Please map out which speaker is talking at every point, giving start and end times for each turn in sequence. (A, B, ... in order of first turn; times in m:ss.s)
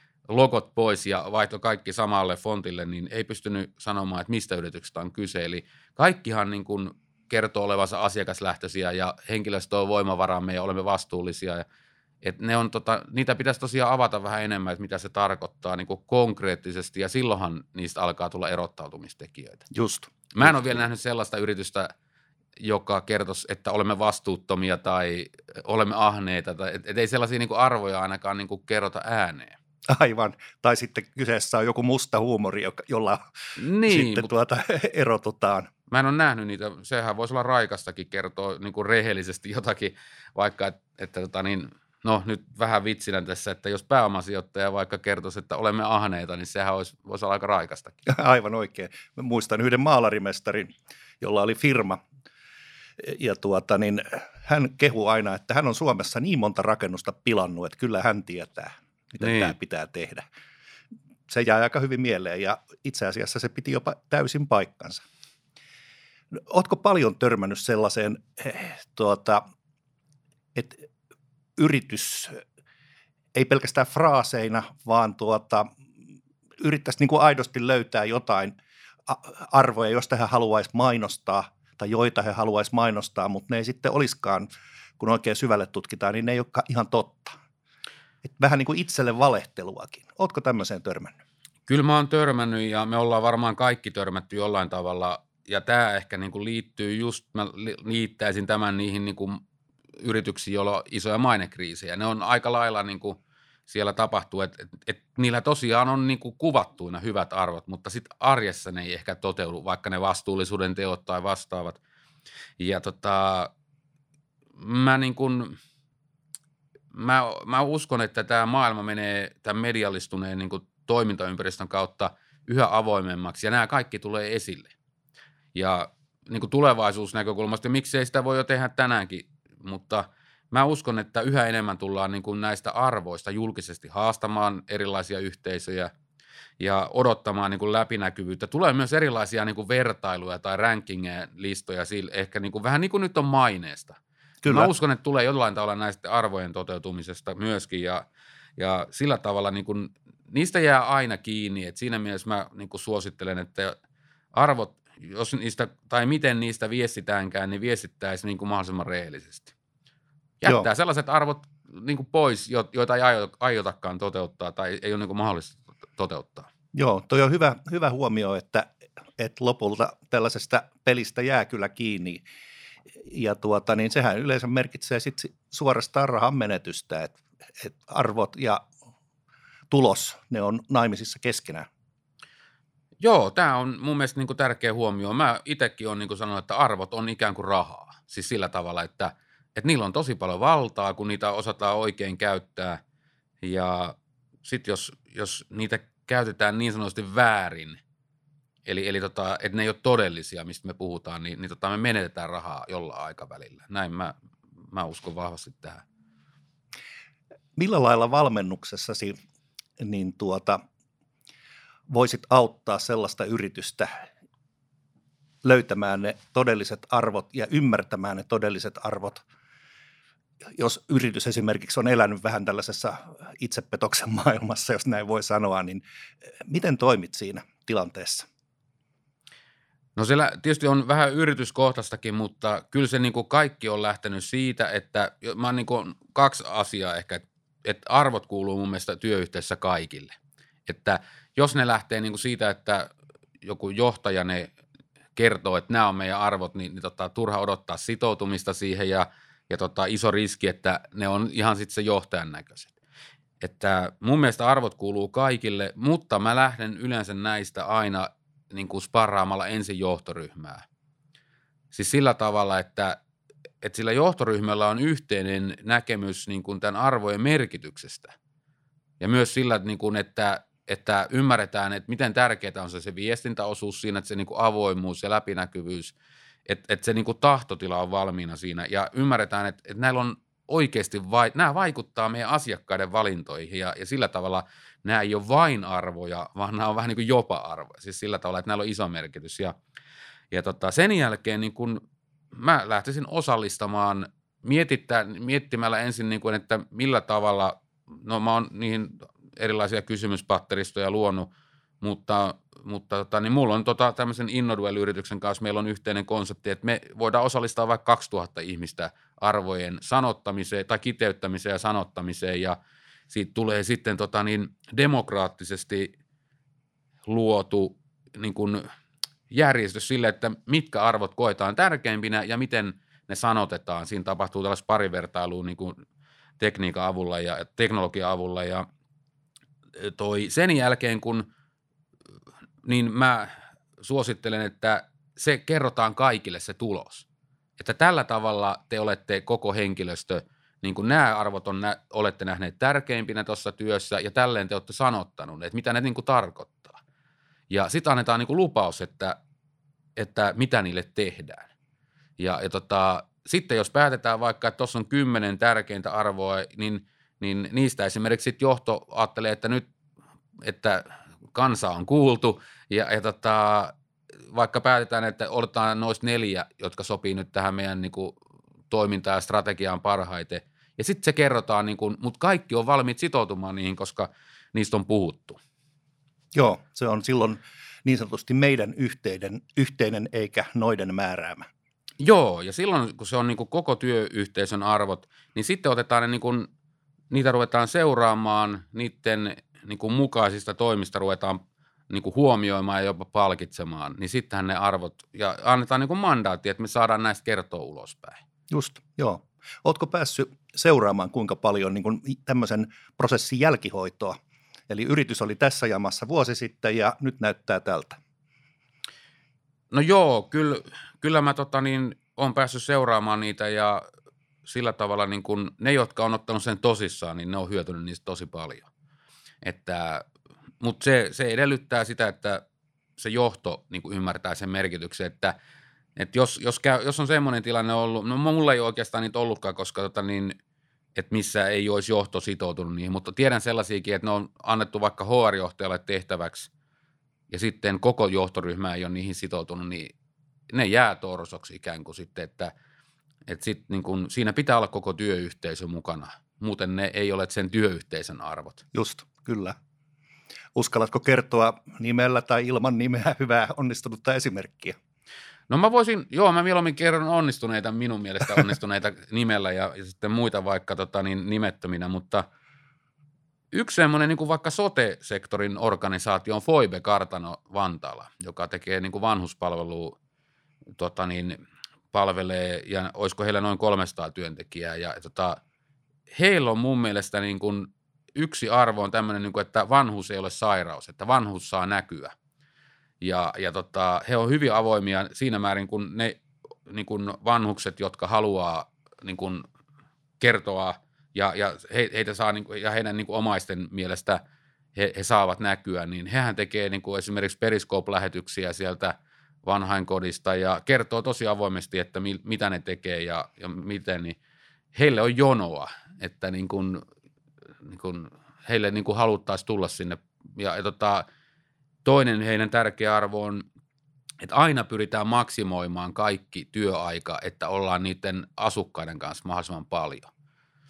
0:00.3-0:11.6 A
0:12.2-0:19.6 A
0:19.7-0:20.8 B
0:20.3-0:21.9 A
0:22.6-0:29.6 A
0:29.9-0:35.7 B
0:33.6-0:34.3 A
0:35.9-0:48.0 A
0:48.1-0:52.0 B
0:53.0-1:00.2 B
0:59.2-0:59.6 A
1:01.3-1:05.0 B
1:06.3-1:09.4 B
1:10.6-1:10.9 B
1:11.6-1:12.4 B
1:13.4-1:15.7 B
1:16.6-1:18.6 B
1:19.1-1:27.4 B
1:28.2-1:31.2 B
1:31.7-1:39.4 A
1:40.0-1:51.8 A
1:52.6-1:53.5 A
1:54.6-1:55.6 A
1:56.9-2:04.7 A
2:05.6-2:15.9 A
2:16.6-2:28.1 A
2:24.4-2:24.7 B
2:28.6-2:33.8 A
2:34.3-2:39.5 A
2:40.4-2:46.5 A
2:46.7-2:52.2 B
2:53.0-2:58.7 B
2:59.7-3:01.7 B
3:03.0-3:12.8 A
3:13.4-3:17.8 A
3:18.7-3:24.1 A
3:24.7-3:25.8 A
3:27.6-3:29.2 B
3:29.8-3:30.6 B
3:31.9-3:34.0 B
3:35.4-3:39.2 B
3:40.6-3:45.8 B
3:46.4-3:48.3 B
3:50.0-4:02.9 A
4:03.4-4:04.5 A
4:05.2-4:12.7 A
4:13.4-4:20.6 A
4:21.7-4:23.0 A
4:23.6-4:28.1 A
4:29.0-4:36.0 A
4:36.5-4:49.6 A
4:50.3-5:12.6 A
5:13.1-5:15.9 A
5:17.1-5:18.7 A
5:19.3-5:25.8 A
5:26.4-5:28.7 A
5:29.8-5:31.3 A
5:32.6-5:37.1 A
5:37.6-5:46.8 A
5:47.5-5:49.2 A
5:50.0-5:51.5 A
5:52.2-5:59.6 A
6:00.4-6:03.7 A
6:04.3-6:08.2 A
6:08.7-6:15.4 A
6:16.3-6:21.4 B
6:22.0-6:26.5 A
6:27.1-6:38.2 A
6:38.5-6:44.2 B
6:44.7-6:48.0 B
6:49.7-6:53.8 A
6:54.4-6:58.7 A
6:59.4-7:00.1 A
7:00.6-7:02.4 A
7:03.0-7:05.4 A
7:06.0-7:10.4 A
7:11.0-7:16.5 A
7:17.3-7:19.9 A
7:20.5-7:22.5 A
7:23.3-7:28.6 A
7:28.7-7:29.6 B
7:30.6-7:34.8 B
7:35.5-7:42.3 A
7:43.5-7:50.0 A
7:50.8-7:51.4 A
7:51.9-7:55.4 A
7:56.1-8:02.1 A
8:03.0-8:09.4 A
8:10.2-8:14.2 A
8:14.8-8:24.2 A
8:24.7-8:26.8 A
8:27.6-8:31.1 A
8:31.8-8:33.4 A
8:34.2-8:40.1 A